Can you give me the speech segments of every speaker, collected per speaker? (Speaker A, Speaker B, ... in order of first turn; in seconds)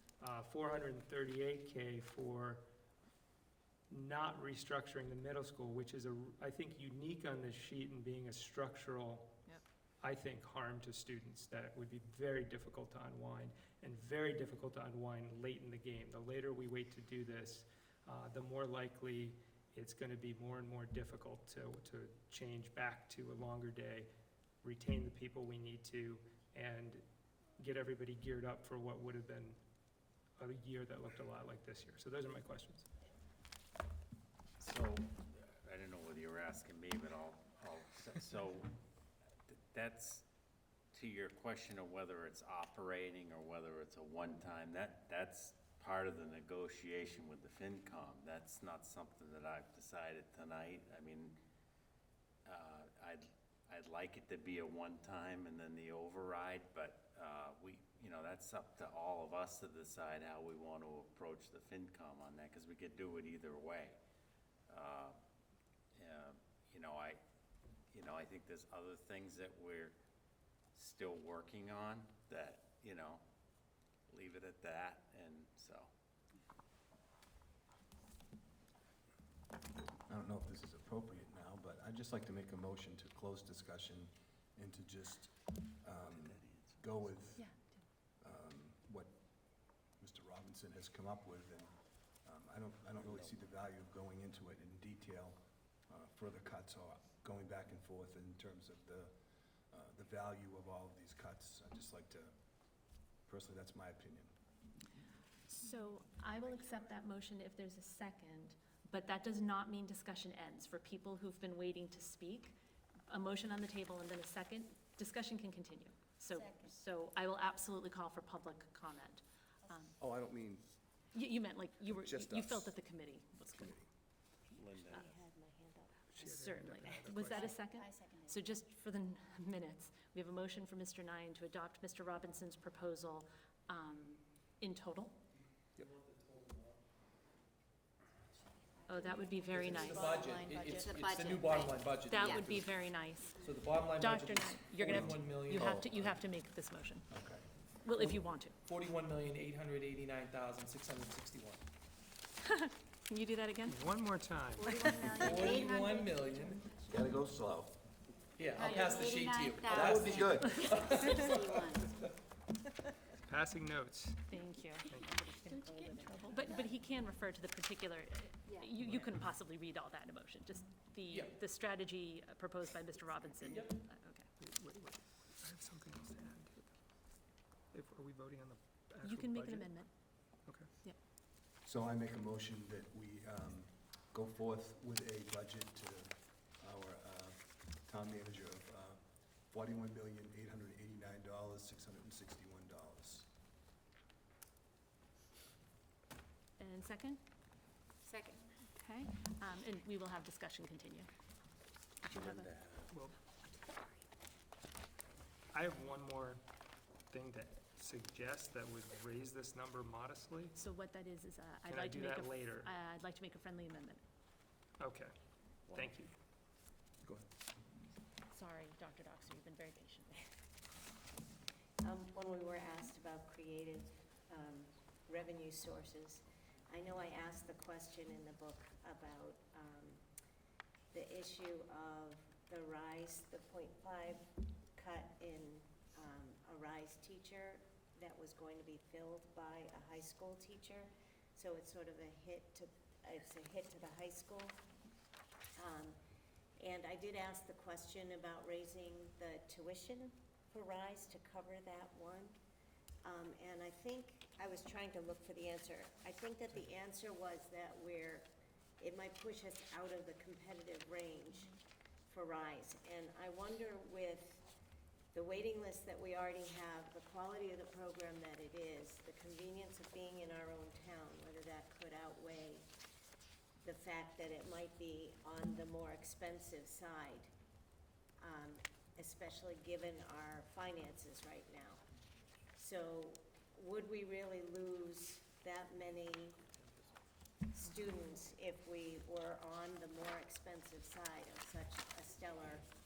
Speaker A: 0.2-2.6, 3.9-9.4, 10.0-24.1, 24.6-27.0, 27.6-29.6, 30.4-32.9, 126.2-127.5, 153.7-154.9, 163.2-164.3, 164.9-165.2, 174.4-176.8, 177.7-179.8, 202.9-203.2, 205.5-206.4, 207.1-210.6, 211.7-212.7, 214.8-215.1, 215.7-216.1
Speaker B: 34.6-38.8, 39.5-40.2, 40.9-51.4, 52.5-64.0, 64.7-65.2, 66.0-67.2, 67.9-70.0, 70.8-73.2, 74.1-75.9, 86.0-87.3, 124.6-125.2, 202.4-202.9
Speaker C: 80.1-87.5, 88.2-99.1, 99.7-102.3, 103.2-104.3, 120.0-120.7, 121.9-122.8, 123.5-123.9, 144.9-146.2, 147.1-147.5, 156.9-157.8, 159.7-160.8, 181.6-193.3
Speaker D: 87.4-87.8, 105.5-112.6, 113.1-120.0, 121.1-123.8, 126.2-135.2, 138.9-140.2, 142.0-143.4, 144.0-147.1, 147.8-148.6, 152.4-153.9, 154.6-155.6, 164.3-174.3, 179.0-181.0, 196.6-197.2, 198.7-201.1, 202.0-202.5, 210.6-214.0, 218.3-220.2
Speaker E: 116.3-116.7, 127.7-128.6, 138.3-142.6, 143.2-143.5, 154.6-157.3, 158.5-161.9, 165.0-166.7, 168.5-168.8, 198.1-198.4
Speaker F: 124.5-126.2, 127.0-127.5, 221.8-230.0, 230.9-244.6, 245.6-246.0, 246.6-252.4, 253.0-258.3, 258.8-261.6, 262.1-264.5, 265.1-272.7, 273.6-277.3, 278.2-281.8, 282.6-286.4, 287.5-292.6
Speaker G: 135.8-136.8, 139.5-145.7, 147.9-151.6, 155.0-156.7, 158.4-162.1, 171.1-171.4, 173.4-173.8